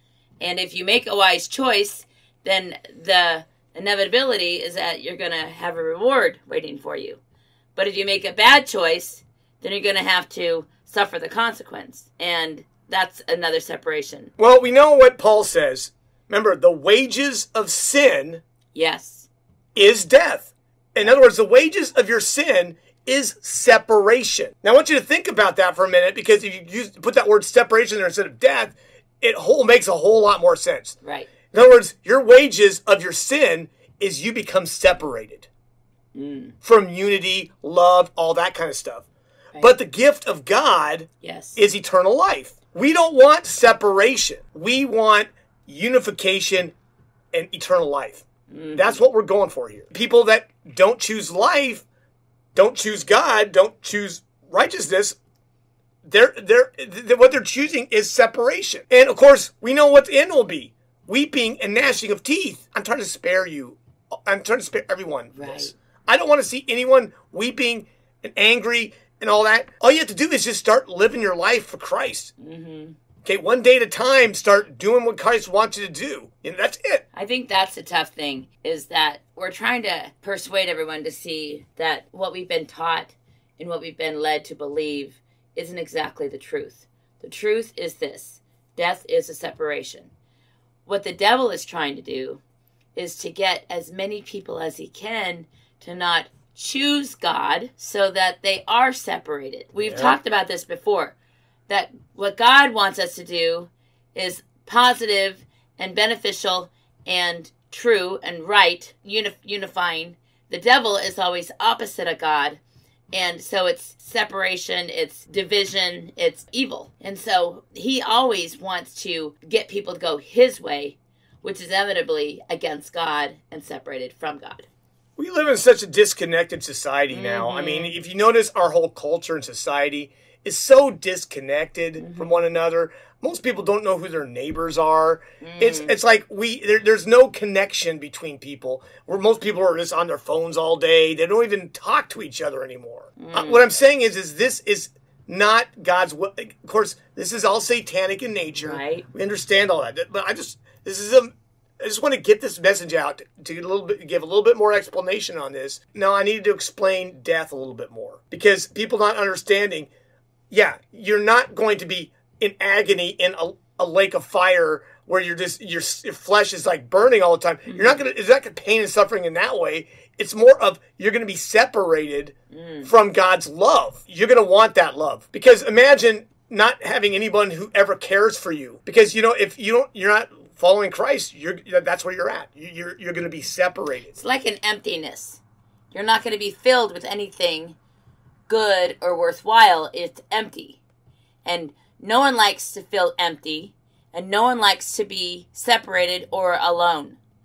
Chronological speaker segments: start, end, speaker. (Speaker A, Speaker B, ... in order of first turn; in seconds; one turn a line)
Speaker A: 0.4-7.2
Speaker A: 7.8-14.3
Speaker B: 14.4-18.4
Speaker A: 18.7-19.3
Speaker B: 19.8-31.0
Speaker A: 31.0-31.3
Speaker B: 31.5-35.5
Speaker A: 36.1-36.5
Speaker B: 36.6-39.1
Speaker B: 39.6-46.7
Speaker A: 41.2-41.6
Speaker B: 47.3-51.9
Speaker A: 48.5-49.0
Speaker B: 52.5-55.2
Speaker B: 56.0-72.3
Speaker A: 65.3-65.7
Speaker A: 72.4-73.0
Speaker B: 73.2-77.0
Speaker A: 77.1-90.1
Speaker A: 90.9-92.4
Speaker A: 93.0-101.2
Speaker B: 99.9-100.2
Speaker A: 101.7-112.6
Speaker A: 113.1-124.7
Speaker B: 125.2-159.9
Speaker A: 127.1-128.0
Speaker A: 132.0-132.4
Speaker A: 135.4-135.9
Speaker A: 143.2-143.7
Speaker A: 148.6-149.1
Speaker B: 160.5-184.2
Speaker A: 167.7-168.0
Speaker A: 172.5-172.9
Speaker A: 184.1-185.4
Speaker A: 185.9-187.8
Speaker A: 188.5-190.8
Speaker A: 191.4-197.2